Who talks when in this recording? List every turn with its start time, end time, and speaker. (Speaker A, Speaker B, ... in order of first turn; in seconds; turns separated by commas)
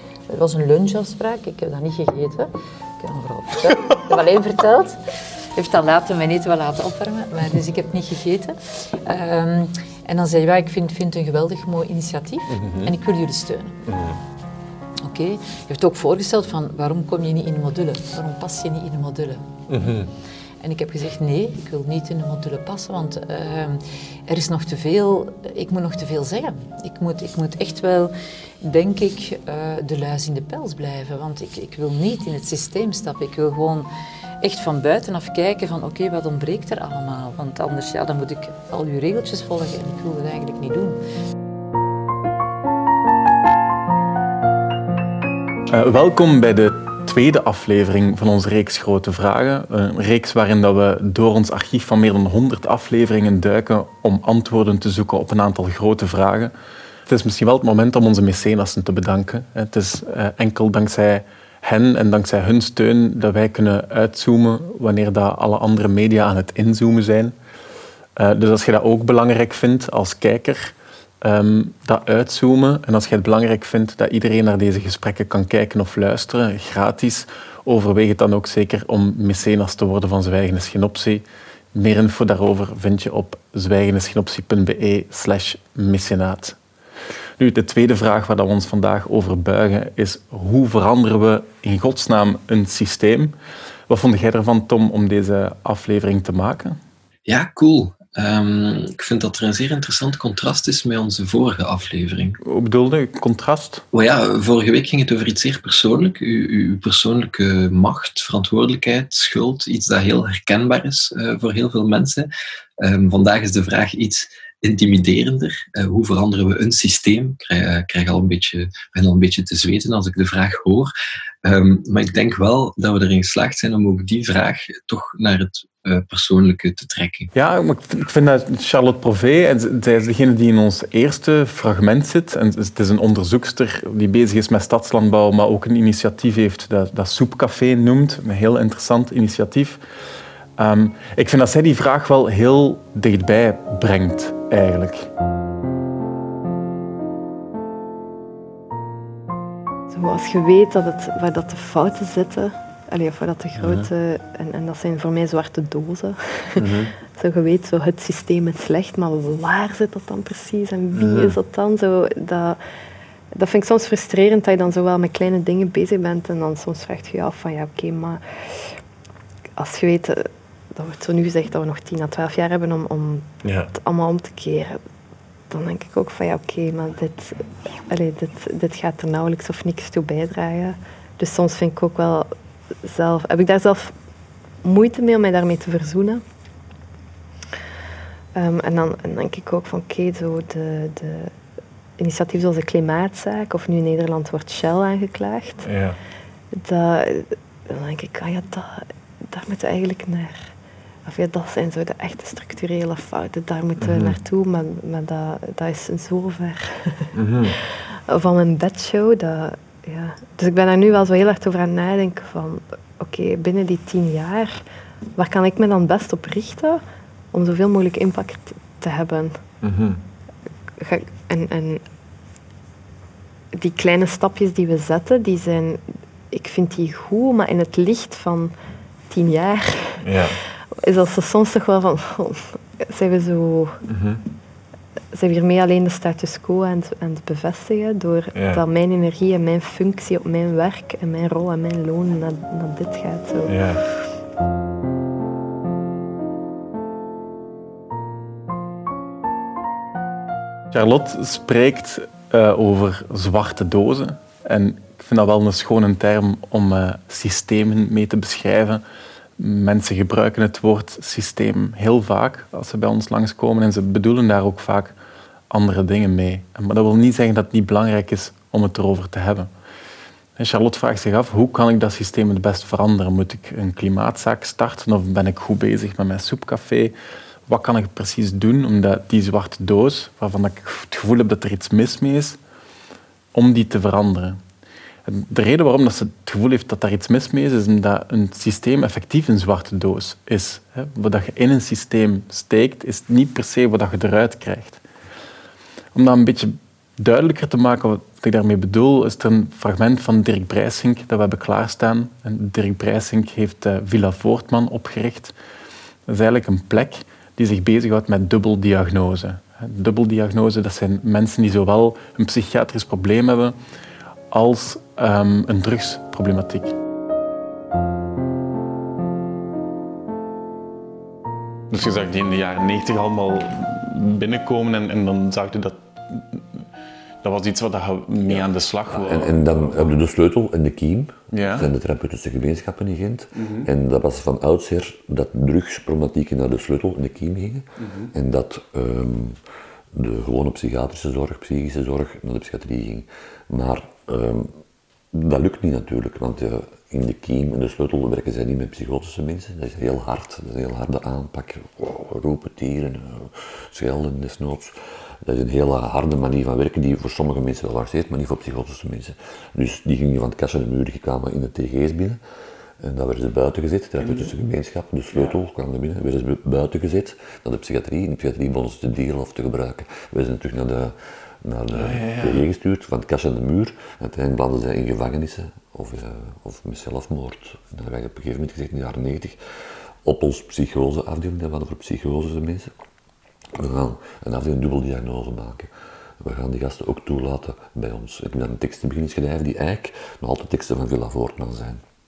Speaker A: 0.3-5.0, Speaker A: 5.5-13.8, Speaker A: 15.1-20.1, Speaker B: 19.7-20.0, Speaker A: 20.6-33.9, Speaker A: 34.4-41.0, Speaker B: 45.7-56.5, Speaker B: 57.1-67.3, Speaker B: 68.2-86.6, Speaker B: 87.4-93.3, Speaker B: 93.9-96.8, Speaker C: 97.2-102.4, Speaker B: 102.4-103.8, Speaker C: 103.9-112.3, Speaker C: 112.8-120.9, Speaker C: 121.4-127.3, Speaker B: 127.3-139.8, Speaker B: 140.6-145.1, Speaker D: 149.9-162.6, Speaker B: 153.6-153.8, Speaker B: 156.6-156.9, Speaker B: 160.9-161.3, Speaker D: 163.3-168.7, Speaker D: 169.6-174.8, Speaker B: 173.4-173.7, Speaker D: 175.5-182.3, Speaker D: 182.8-183.9, Speaker D: 184.6-186.2, Speaker D: 188.3-191.3, Speaker D: 192.0-195.7, Speaker B: 195.6-196.0, Speaker D: 196.5-200.5, Speaker D: 201.1-207.5, Speaker B: 203.8-204.2, Speaker B: 207.2-207.5, Speaker D: 208.1-214.6, Speaker D: 215.2-219.4, Speaker B: 219.6-220.0, Speaker D: 220.8-221.8, Speaker D: 223.5-228.5, Speaker D: 229.1-230.2, Speaker B: 230.0-230.3, Speaker D: 230.8-233.8, Speaker B: 233.9-234.2, Speaker D: 235.1-243.8, Speaker B: 238.3-238.6, Speaker B: 243.5-243.8, Speaker B: 250.7-258.8, Speaker B: 259.4-264.9, Speaker B: 265.5-269.5, Speaker B: 270.4-276.9, Speaker B: 277.5-282.4, Speaker B: 283.3-284.4, Speaker B: 285.1-294.8, Speaker B: 295.9-305.3, Speaker B: 306.1-313.6, Speaker B: 314.3-316.7, Speaker B: 321.7-326.4, Speaker B: 327.2-329.9, Speaker E: 328.2-339.4, Speaker B: 331.3-331.7, Speaker B: 333.4-333.7, Speaker B: 337.8-338.1, Speaker E: 339.9-344.5, Speaker E: 345.1-362.2, Speaker E: 362.8-379.4, Speaker B: 364.0-364.3, Speaker B: 365.1-365.4, Speaker B: 371.7-372.4, Speaker E: 380.0-382.7, Speaker E: 383.6-385.7, Speaker E: 386.2-391.8